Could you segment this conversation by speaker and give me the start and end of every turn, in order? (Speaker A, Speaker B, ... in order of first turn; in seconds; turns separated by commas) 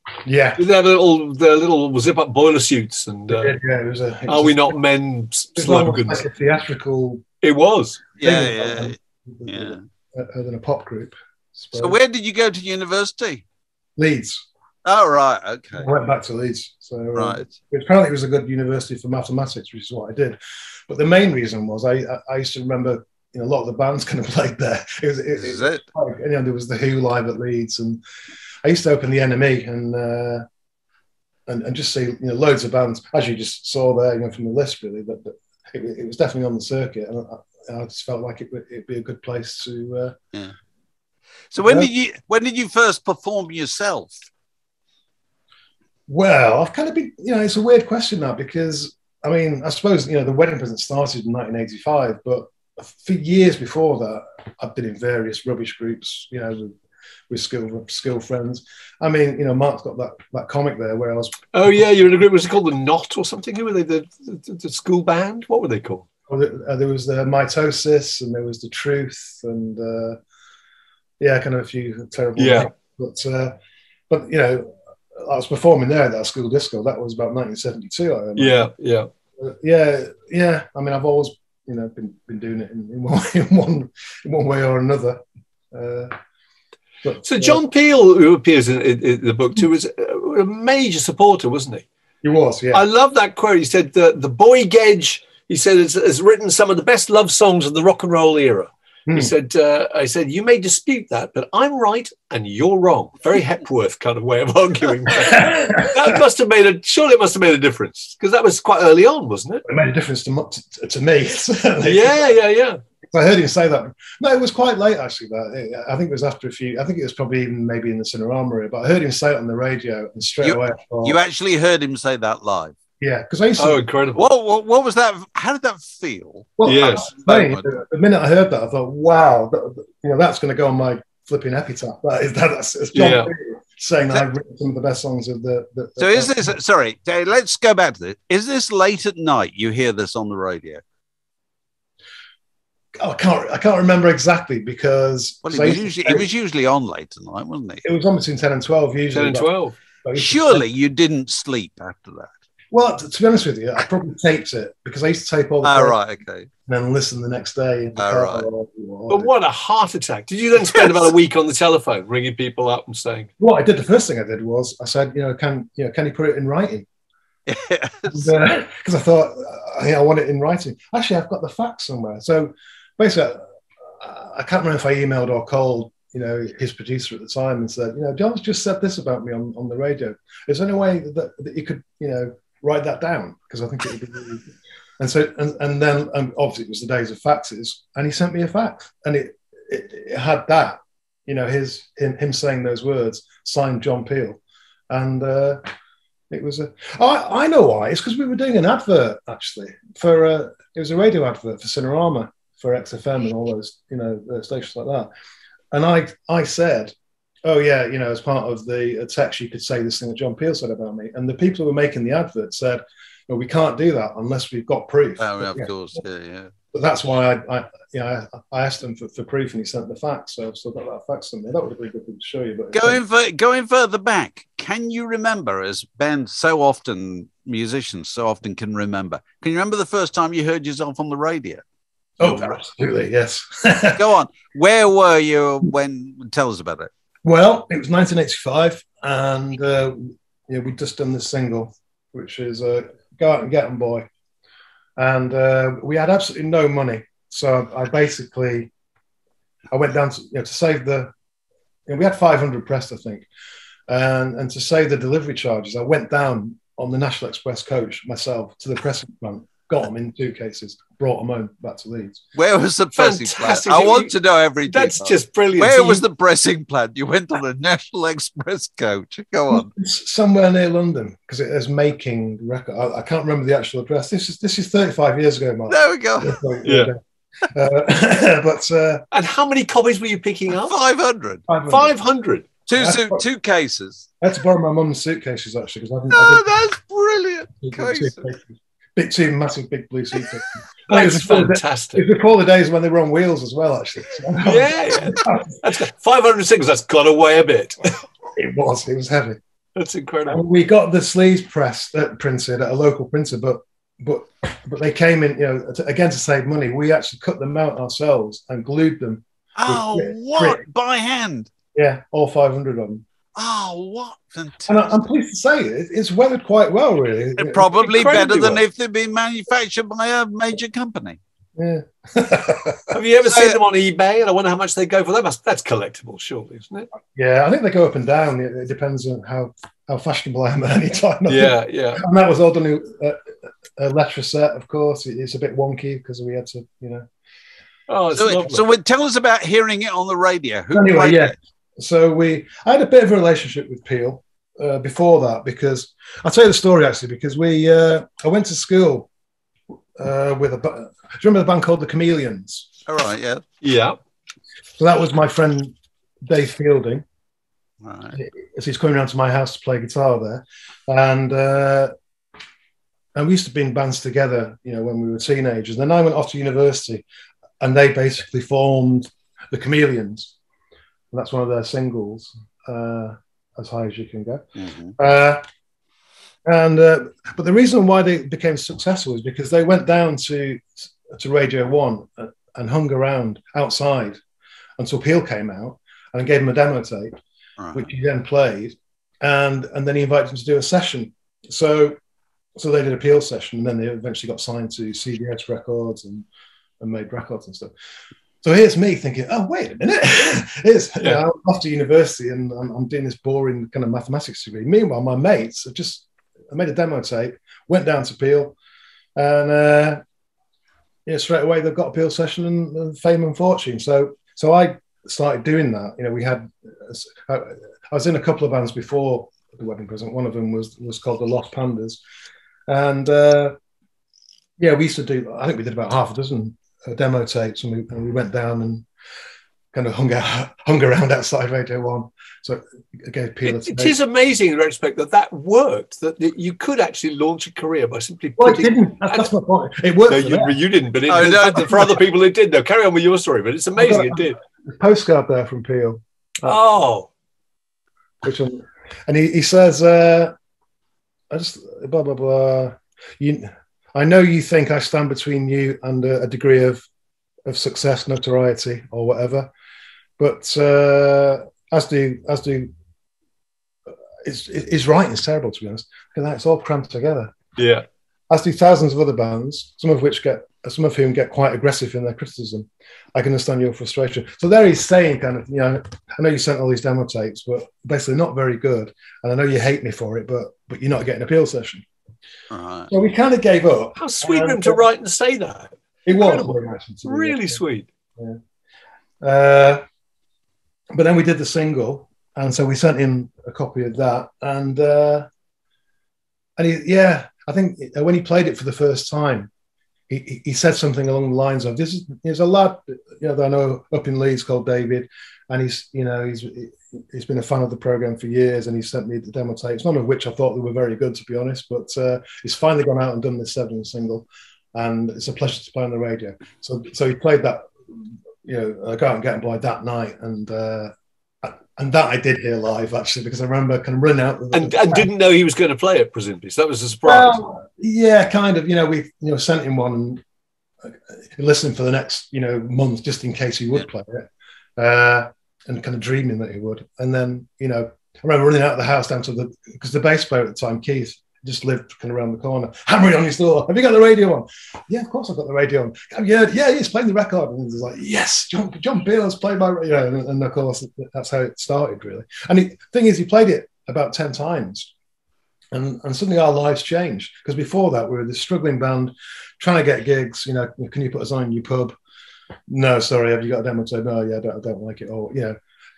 Speaker A: 0.2-0.6, Speaker B: 0.6-3.6, Speaker A: 3.3-4.8, Speaker B: 4.3-6.3, Speaker A: 5.6-7.2, Speaker B: 7.4-8.0, Speaker C: 8.2-9.0, Speaker A: 8.2-12.0, Speaker C: 9.5-9.8, Speaker C: 11.8-13.4, Speaker A: 14.0-14.4, Speaker C: 14.8-15.9, Speaker A: 15.8-28.0, Speaker C: 17.1-17.5, Speaker C: 25.4-25.8, Speaker A: 28.6-30.4, Speaker A: 31.5-40.2, Speaker C: 41.5-44.3, Speaker A: 41.6-41.9, Speaker A: 46.1-56.8, Speaker A: 57.3-61.9, Speaker B: 61.5-66.0, Speaker A: 66.3-70.2, Speaker A: 71.2-73.5, Speaker B: 72.4-72.7, Speaker A: 74.1-78.7, Speaker B: 78.4-79.1, Speaker A: 79.4-86.1, Speaker A: 87.0-87.6, Speaker B: 87.2-91.8, Speaker A: 92.2-92.8, Speaker B: 92.7-109.6, Speaker A: 99.1-99.3, Speaker A: 105.3-106.0, Speaker A: 109.7-112.3, Speaker B: 111.8-112.8, Speaker A: 113.1-121.2, Speaker C: 120.4-122.8, Speaker A: 123.0-123.9, Speaker B: 123.6-124.3, Speaker C: 124.2-126.6, Speaker A: 126.6-136.5, Speaker B: 126.7-127.1, Speaker C: 127.2-127.6, Speaker B: 132.9-133.3, Speaker C: 136.0-140.8, Speaker A: 143.0-146.3, Speaker C: 145.4-147.8, Speaker A: 147.8-149.5, Speaker B: 149.1-149.8, Speaker A: 150.0-150.7, Speaker C: 150.2-152.3, Speaker A: 152.7-156.0, Speaker C: 155.6-156.5, Speaker A: 156.7-159.3, Speaker C: 158.0-158.5, Speaker B: 159.1-163.3, Speaker A: 163.4-166.9, Speaker C: 167.5-168.3, Speaker A: 168.1-184.4, Speaker A: 185.0-194.4, Speaker A: 194.9-195.6, Speaker A: 196.3-205.1, Speaker A: 205.7-206.9, Speaker A: 207.4-215.7, Speaker C: 215.2-216.5, Speaker A: 216.7-223.0, Speaker C: 222.7-231.6, Speaker A: 232.2-234.0, Speaker C: 232.2-232.5, Speaker C: 233.9-236.9, Speaker A: 237.2-244.1, Speaker A: 245.0-248.7, Speaker A: 249.7-251.1, Speaker A: 251.9-253.3, Speaker A: 253.9-262.2, Speaker C: 262.4-269.7, Speaker B: 262.9-264.1, Speaker B: 264.7-266.0, Speaker A: 269.5-279.1, Speaker C: 275.7-276.4, Speaker B: 276.6-276.9, Speaker B: 279.1-280.8, Speaker C: 280.6-281.4, Speaker A: 281.5-281.9, Speaker B: 281.7-282.5, Speaker C: 282.7-284.1, Speaker A: 282.8-283.2, Speaker A: 284.2-286.5, Speaker C: 286.1-288.2, Speaker A: 287.6-295.6, Speaker B: 290.9-292.1, Speaker B: 294.4-297.9, Speaker A: 298.4-299.4, Speaker B: 299.8-300.4, Speaker A: 300.3-310.6, Speaker C: 309.6-311.5, Speaker A: 311.7-313.0, Speaker C: 313.4-314.9, Speaker A: 314.7-317.7, Speaker C: 317.4-321.2, Speaker B: 317.8-318.6, Speaker A: 321.6-322.9, Speaker B: 322.9-326.9, Speaker C: 323.3-323.6, Speaker A: 327.1-333.2, Speaker B: 331.3-332.0, Speaker A: 333.8-337.1, Speaker B: 337.9-338.7, Speaker C: 338.1-341.3, Speaker A: 340.7-349.1, Speaker A: 350.0-352.7, Speaker C: 352.9-353.4, Speaker B: 353.6-354.0, Speaker A: 354.8-355.8, Speaker A: 356.3-357.1, Speaker C: 357.8-358.2, Speaker A: 358.1-361.9, Speaker A: 363.1-367.0, Speaker A: 367.6-370.3, Speaker A: 371.1-374.5, Speaker C: 374.6-374.9, Speaker A: 375.0-375.4, Speaker A: 376.5-384.2, Speaker A: 384.8-387.2, Speaker C: 387.6-387.9, Speaker A: 387.7-392.0, Speaker A: 392.6-396.3, Speaker A: 396.8-397.7, Speaker A: 398.4-408.6, Speaker A: 409.2-410.0, Speaker A: 411.1-422.0, Speaker A: 422.7-423.6, Speaker A: 424.6-428.9, Speaker A: 429.7-434.0, Speaker B: 433.4-439.3, Speaker A: 438.4-440.6, Speaker B: 440.1-444.4, Speaker C: 441.1-441.9, Speaker A: 441.2-441.7, Speaker A: 443.8-446.6, Speaker B: 446.4-447.1, Speaker A: 448.2-450.3, Speaker A: 451.3-456.9, Speaker A: 457.5-459.5, Speaker A: 460.2-462.7, Speaker A: 464.2-467.4, Speaker B: 467.6-467.9, Speaker A: 468.3-481.9, Speaker C: 482.5-482.9, Speaker A: 482.9-484.8, Speaker B: 484.0-487.9, Speaker A: 486.1-487.6, Speaker A: 489.2-489.8, Speaker A: 490.9-495.3, Speaker A: 496.6-499.5, Speaker A: 500.1-517.7, Speaker A: 518.4-520.9, Speaker A: 521.4-525.1, Speaker B: 524.5-527.4, Speaker A: 527.0-530.2, Speaker A: 530.8-554.9, Speaker A: 555.7-562.0, Speaker A: 562.7-565.6